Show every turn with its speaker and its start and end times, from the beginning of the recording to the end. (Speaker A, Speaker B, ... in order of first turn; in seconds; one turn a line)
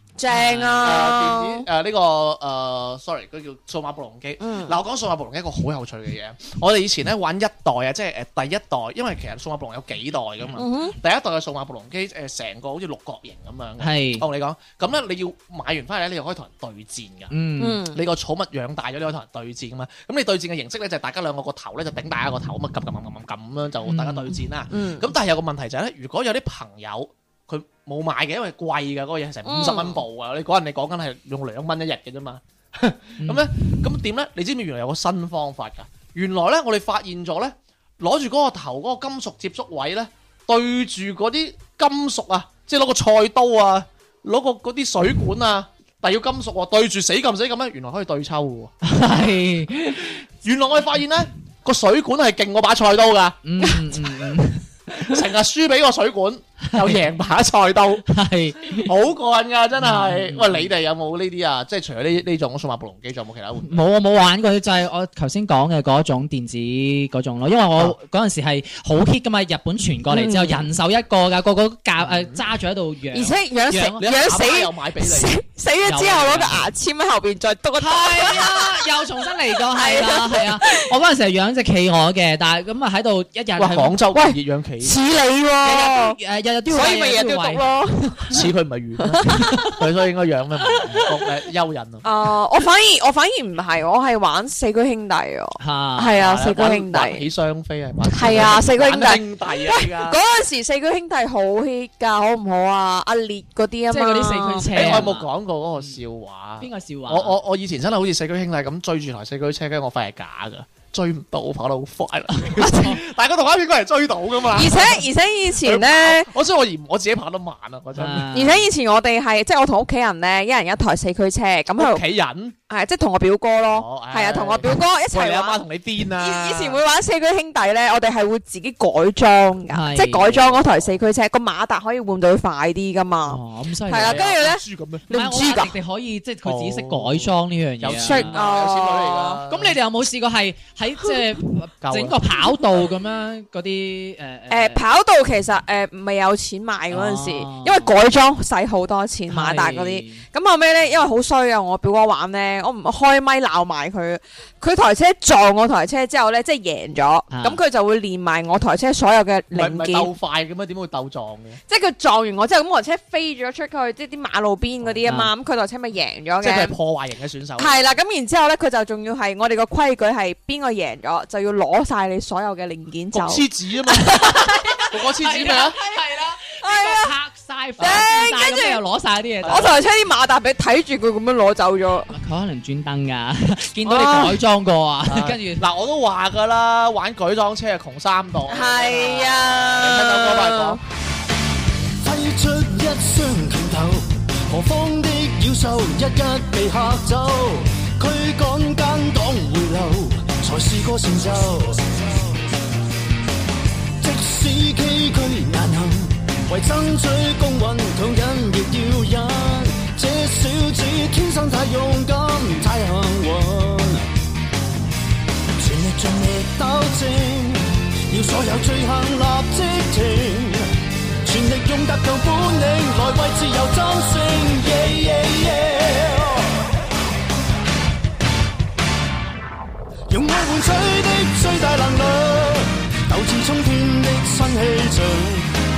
Speaker A: 0.2-1.6
Speaker B: 0.3-0.9
Speaker C: 0.8-17.3
Speaker A: 4.4-4.8
Speaker A: 10.6-10.9
Speaker B: 13.8-14.2
Speaker B: 17.3-17.8
Speaker A: 17.6-18.0
Speaker C: 17.9-48.7
Speaker B: 23.9-24.4
Speaker A: 24.7-25.1
Speaker A: 29.4-30.0
Speaker B: 33.2-33.5
Speaker B: 48.8-50.1
Speaker C: 50.4-53.4
Speaker B: 53.4-55.2
Speaker C: 55.0-58.0
Speaker B: 56.7-57.0
Speaker B: 58.1-58.9
Speaker C: 58.7-63.8
Speaker B: 59.8-60.7
Speaker B: 63.7-74.0
Speaker A: 70.1-70.7
Speaker C: 72.0-72.4
Speaker A: 73.1-78.8
Speaker C: 74.0-75.4
Speaker B: 75.8-76.6
Speaker B: 77.8-84.0
Speaker A: 79.7-80.9
Speaker C: 83.6-85.0
Speaker A: 84.1-86.2
Speaker B: 85.6-87.6
Speaker A: 86.7-88.4
Speaker C: 88.3-92.0
Speaker A: 89.0-89.7
Speaker A: 92.0-97.2
Speaker B: 95.6-96.1
Speaker C: 96.1-100.2
Speaker A: 98.1-105.0
Speaker B: 103.9-106.0
Speaker C: 104.7-115.0
Speaker B: 106.6-107.3
Speaker B: 112.6-113.0
Speaker A: 114.5-116.3
Speaker C: 115.6-118.4
Speaker B: 117.9-118.6
Speaker A: 118.3-122.0
Speaker C: 121.8-122.5
Speaker A: 122.7-125.6
Speaker C: 123.7-126.8
Speaker A: 126.2-135.7
Speaker B: 129.7-130.3
Speaker C: 130.2-130.9
Speaker B: 133.3-134.2
Speaker C: 134.0-135.1
Speaker B: 135.1-138.4
Speaker C: 136.4-139.8
Speaker A: 138.0-139.4
Speaker B: 139.5-144.8
Speaker C: 141.8-142.2
Speaker A: 144.5-160.1
Speaker B: 146.9-147.9
Speaker B: 149.3-150.2
Speaker B: 157.3-157.6
Speaker C: 159.5-161.6
Speaker A: 161.7-166.7
Speaker C: 166.4-167.8
Speaker A: 167.6-174.8
Speaker C: 173.1-174.2
Speaker B: 174.2-179.7
Speaker C: 174.9-175.8
Speaker A: 176.6-177.1
Speaker A: 177.8-178.8
Speaker C: 177.8-178.1
Speaker C: 179.4-179.7
Speaker A: 179.5-182.1
Speaker B: 182.1-185.6
Speaker A: 183.8-184.4
Speaker C: 185.1-190.8
Speaker A: 188.5-190.8
Speaker D: 192.0-202.0
Speaker D: 204.0-214.1
Speaker D: 215.6-226.7
Speaker D: 230.1-235.5